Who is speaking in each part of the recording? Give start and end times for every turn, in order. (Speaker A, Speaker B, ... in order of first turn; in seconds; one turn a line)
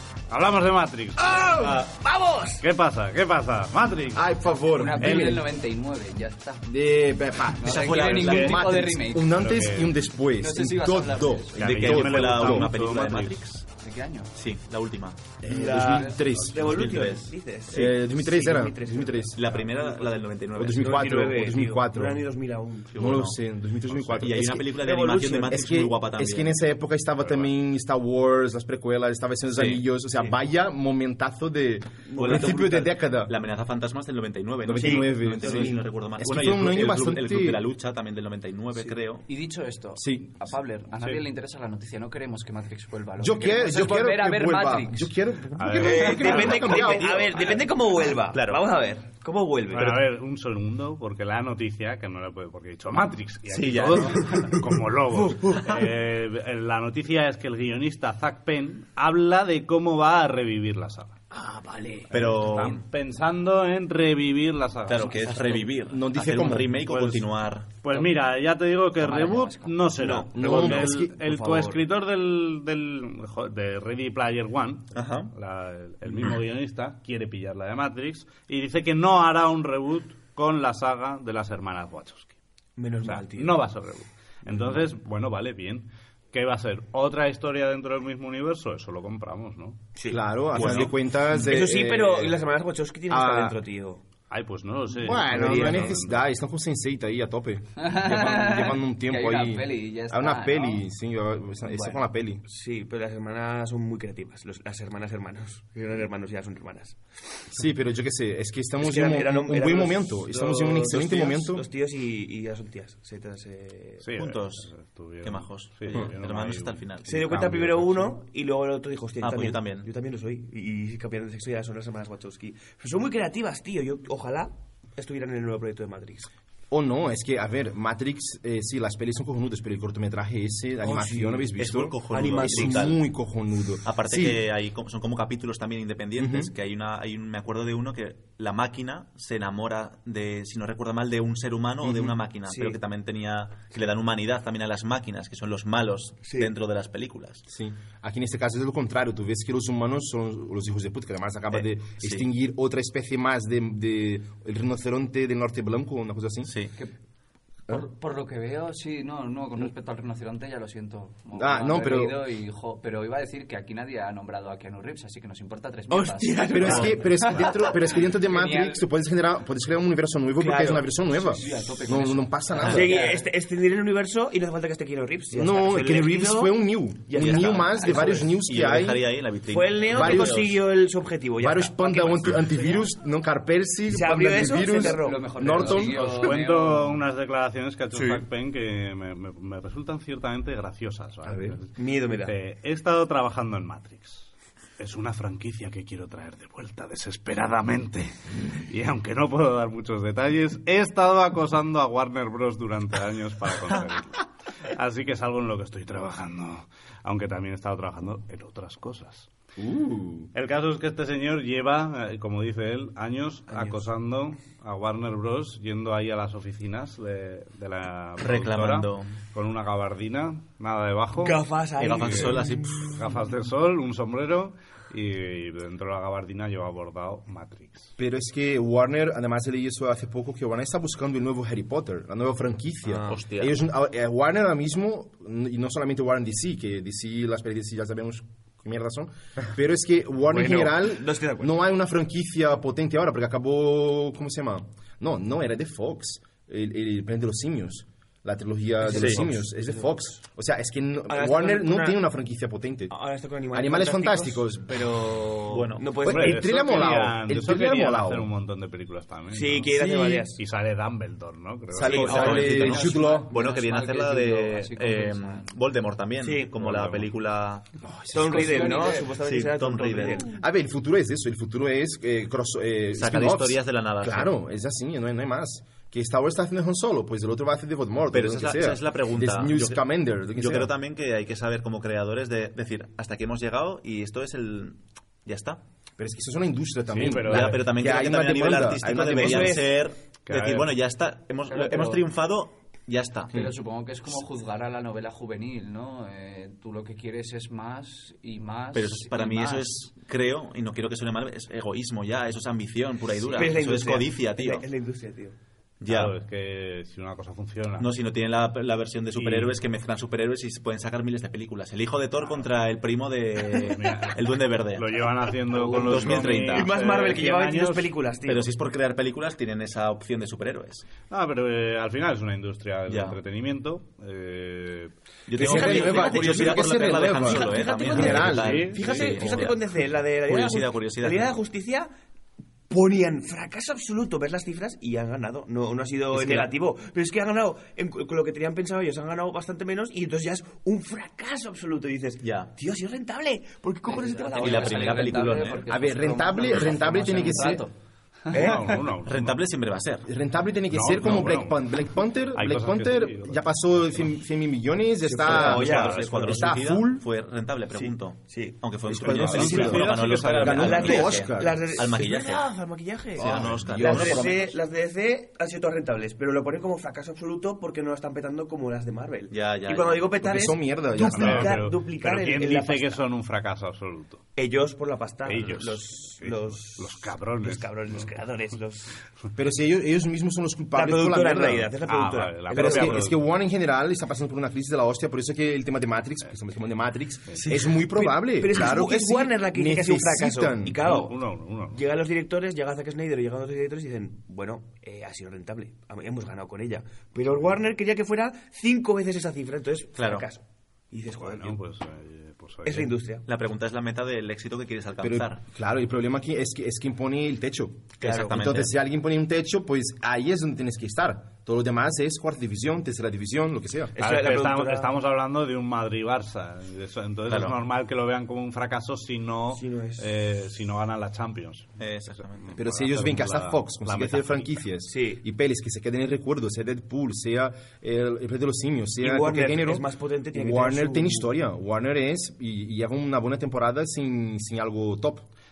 Speaker A: 0.3-1.5
Speaker B: 1.2-2.6
Speaker C: 1.6-1.9
Speaker A: 2.6-4.3
Speaker D: 4.1-5.4
Speaker E: 4.7-6.7
Speaker A: 5.0-5.4
Speaker D: 6.7-12.7
Speaker E: 7.5-9.3
Speaker C: 7.6-8.6
Speaker A: 9.2-10.0
Speaker E: 10.4-11.6
Speaker A: 11.6-13.4
Speaker C: 11.6-13.7
Speaker E: 13.8-14.3
Speaker C: 14.3-15.3
Speaker D: 15.4-17.1
Speaker B: 15.4-22.9
Speaker E: 15.8-16.2
Speaker C: 16.6-18.0
Speaker D: 17.7-19.5
Speaker C: 19.3-21.5
Speaker D: 20.5-22.2
Speaker C: 22.9-23.4
Speaker D: 22.9-33.3
Speaker C: 23.9-26.6
Speaker B: 24.8-25.6
Speaker C: 29.5-30.3
Speaker B: 32.1-32.9
Speaker C: 32.2-39.2
Speaker D: 34.6-37.6
Speaker B: 34.7-35.6
Speaker E: 39.3-45.1
Speaker D: 40.0-40.3
Speaker D: 43.2-47.4
Speaker A: 45.6-46.7
Speaker B: 45.8-50.0
Speaker C: 46.3-48.6
Speaker A: 49.7-61.2
Speaker C: 53.5-54.6
Speaker B: 55.1-55.7
Speaker B: 61.3-62.1
Speaker C: 62.1-62.8
Speaker A: 62.1-65.4
Speaker C: 64.9-67.7
Speaker D: 65.9-67.2
Speaker A: 67.8-82.3
Speaker E: 69.0-69.8
Speaker B: 70.0-71.8
Speaker D: 70.3-71.2
Speaker C: 74.9-75.3
Speaker B: 82.8-83.6
Speaker A: 83.0-89.8
Speaker B: 90.0-90.2
Speaker D: 90.1-92.3
Speaker C: 90.5-90.9
Speaker B: 91.3-94.0
Speaker D: 93.1-93.6
Speaker A: 94.3-96.2
Speaker B: 95.0-96.0
Speaker D: 95.0-102.4
Speaker E: 97.8-100.8
Speaker E: 101.6-102.0
Speaker B: 102.5-107.5
Speaker D: 107.5-111.6
Speaker B: 108.8-114.0
Speaker A: 114.0-118.1
Speaker C: 114.2-114.7
Speaker C: 115.2-117.4
Speaker B: 117.0-126.3
Speaker C: 119.2-119.9
Speaker D: 126.7-134.4
Speaker B: 130.8-131.5
Speaker C: 131.6-133.0
Speaker B: 132.1-133.0
Speaker C: 133.8-147.4
Speaker D: 136.2-136.5
Speaker D: 141.8-142.1
Speaker B: 142.4-142.8
Speaker B: 146.2-146.5
Speaker D: 147.5-156.5
Speaker C: 151.5-152.2
Speaker C: 156.4-156.7
Speaker E: 157.7-168.8
Speaker D: 161.3-162.2
Speaker B: 165.9-167.6
Speaker D: 166.5-172.9
Speaker B: 170.4-171.7
Speaker E: 171.3-173.2
Speaker B: 172.6-178.4
Speaker D: 175.3-179.2
Speaker C: 178.4-180.6
Speaker B: 179.5-182.4
Speaker D: 179.9-180.5
Speaker D: 181.4-186.2
Speaker B: 183.9-185.7
Speaker E: 184.7-187.0
Speaker A: 185.7-209.3
Speaker B: 187.9-188.2
Speaker D: 191.2-191.6
Speaker B: 191.8-192.3
Speaker D: 209.6-210.3
Speaker A: 210.3-227.9
Speaker B: 213.5-213.8
Speaker C: 218.2-219.1
Speaker B: 221.1-222.9
Speaker C: 221.8-222.9
Speaker D: 228.0-252.9
Speaker B: 232.9-233.2
Speaker C: 233.1-233.5
Speaker B: 240.2-241.5
Speaker B: 248.8-250.0
Speaker C: 248.9-249.2
Speaker B: 251.1-252.0
Speaker B: 252.9-256.8
Speaker D: 253.5-254.8
Speaker C: 255.5-256.0
Speaker D: 256.0-258.3
Speaker A: 256.0-262.6
Speaker B: 259.3-260.4
Speaker D: 261.7-263.3
Speaker C: 261.8-267.7
Speaker B: 261.9-262.8
Speaker E: 262.2-265.5
Speaker B: 266.2-266.6
Speaker A: 266.7-267.0
Speaker D: 267.8-268.8
Speaker B: 268.1-270.3
Speaker E: 268.2-269.2
Speaker C: 269.1-270.2
Speaker D: 270.3-280.7
Speaker C: 272.9-274.3
Speaker C: 278.1-279.8
Speaker C: 280.3-285.6
Speaker D: 286.0-289.7
Speaker A: 286.9-287.6
Speaker C: 287.1-293.5
Speaker B: 289.1-289.7
Speaker A: 290.2-290.8
Speaker E: 291.5-292.0
Speaker E: 293.3-299.8
Speaker C: 298.7-304.6
Speaker B: 303.3-305.4
Speaker C: 305.8-306.1
Speaker A: 305.9-307.9
Speaker C: 307.8-316.7
Speaker A: 309.1-309.6
Speaker A: 313.6-317.9
Speaker B: 315.7-318.5
Speaker C: 318.2-320.9
Speaker A: 321.1-324.9
Speaker C: 322.9-323.2
Speaker C: 325.3-331.4
Speaker D: 325.4-328.7
Speaker B: 325.4-331.9
Speaker A: 328.3-329.1
Speaker B: 332.7-345.3
Speaker C: 336.1-336.4
Speaker C: 342.2-342.5
Speaker E: 343.9-347.7
Speaker C: 344.3-345.7
Speaker D: 345.7-347.6
Speaker B: 348.3-348.9
Speaker A: 348.3-349.4
Speaker C: 349.0-350.1
Speaker D: 350.0-357.0
Speaker A: 350.7-354.1
Speaker B: 355.0-356.7
Speaker C: 355.2-362.5
Speaker A: 355.3-356.1
Speaker B: 357.7-373.0
Speaker D: 358.9-361.8
Speaker A: 359.1-361.1
Speaker D: 363.1-364.4
Speaker C: 363.1-364.6
Speaker C: 369.3-370.2
Speaker D: 370.2-371.6
Speaker A: 371.1-374.2
Speaker B: 374.4-379.0
Speaker A: 375.2-378.1
Speaker D: 379.4-381.7
Speaker B: 380.7-383.1
Speaker A: 381.9-383.2
Speaker D: 382.5-390.8
Speaker C: 387.3-387.6
Speaker B: 387.6-391.2
Speaker A: 390.8-391.8
Speaker B: 391.7-401.6
Speaker C: 399.9-400.2
Speaker A: 401.1-402.9
Speaker B: 402.6-403.2
Speaker C: 403.2-405.4
Speaker D: 405.0-413.9
Speaker B: 408.0-408.5
Speaker C: 408.0-408.7
Speaker B: 413.9-414.9
Speaker A: 414.0-421.8
Speaker C: 417.3-417.6
Speaker B: 419.5-420.1
Speaker C: 421.8-422.5
Speaker A: 422.4-424.6
Speaker D: 422.6-435.3
Speaker B: 424.9-425.2
Speaker B: 429.0-431.3